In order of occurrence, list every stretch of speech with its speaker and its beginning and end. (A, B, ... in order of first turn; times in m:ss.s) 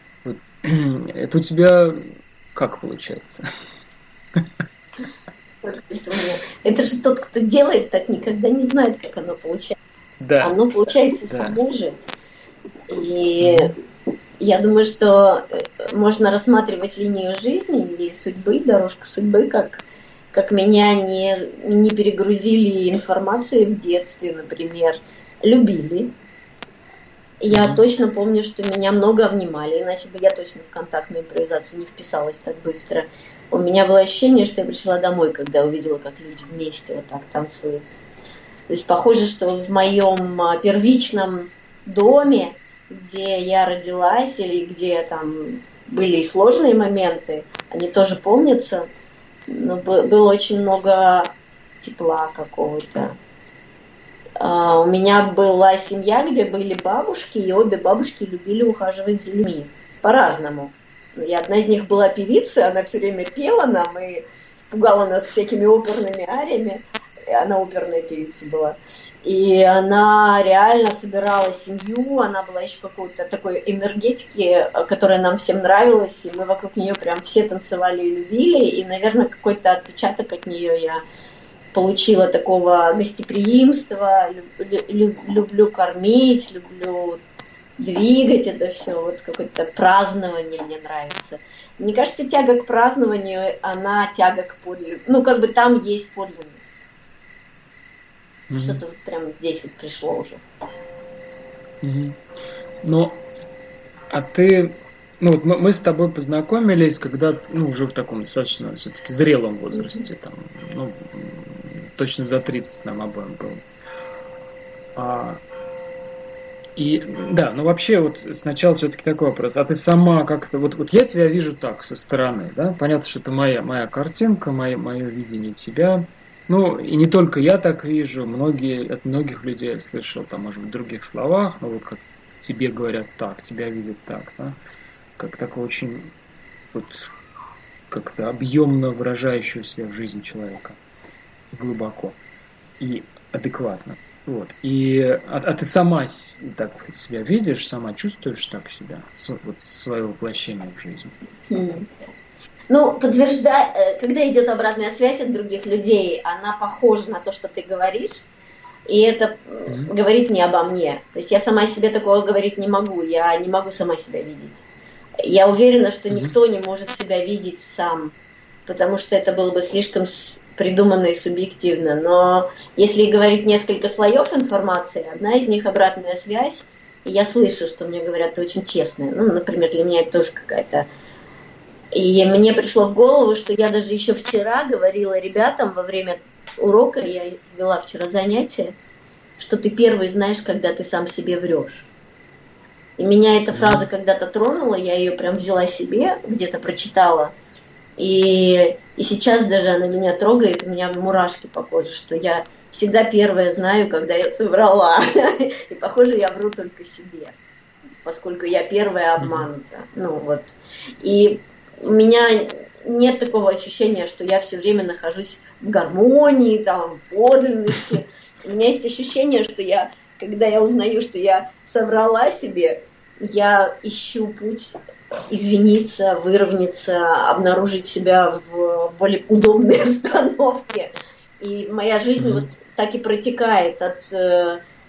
0:00.2-0:03.4 A
0:05.6-0:09.8 B
0:10.2-0:10.6 A
0:10.4-0:12.0 B
0:11.3-0:11.6 A
0:12.9-0:13.8 B
0:13.4-0:13.7 A
0:14.4-0:26.1 B
0:27.4-0:37.9 B
0:27.5-0:27.8 A
0:38.7-0:48.9 B
0:49.5-0:53.2 B
0:54.4-1:21.0 B
1:21.7-1:27.2 B
1:27.8-1:36.7 B
1:38.5-1:38.8 A
1:38.5-1:40.4 B
1:41.8-1:42.2 A
1:42.8-1:43.2 A
1:44.1-1:53.6 A
1:49.8-1:50.0 B
1:54.9-1:55.4 A
1:56.8-2:14.6 A
2:15.2-2:16.1 A
2:16.7-2:17.1 A
2:17.9-2:20.8 A
2:21.5-2:22.2 A
2:22.8-2:31.2 A
2:31.5-2:31.9 B
2:32.7-2:38.2 B
2:38.9-2:44.6 B
2:39.7-2:39.9 A
2:45.2-3:00.9 B
3:01.9-3:08.7 B
3:09.4-3:11.9 B
3:13.0-3:17.3 B
3:13.5-3:13.8 A
3:18.0-3:27.4 B
3:28.0-3:44.8 B
3:29.2-3:29.5 A
3:45.3-3:54.6 B
3:52.2-3:52.4 A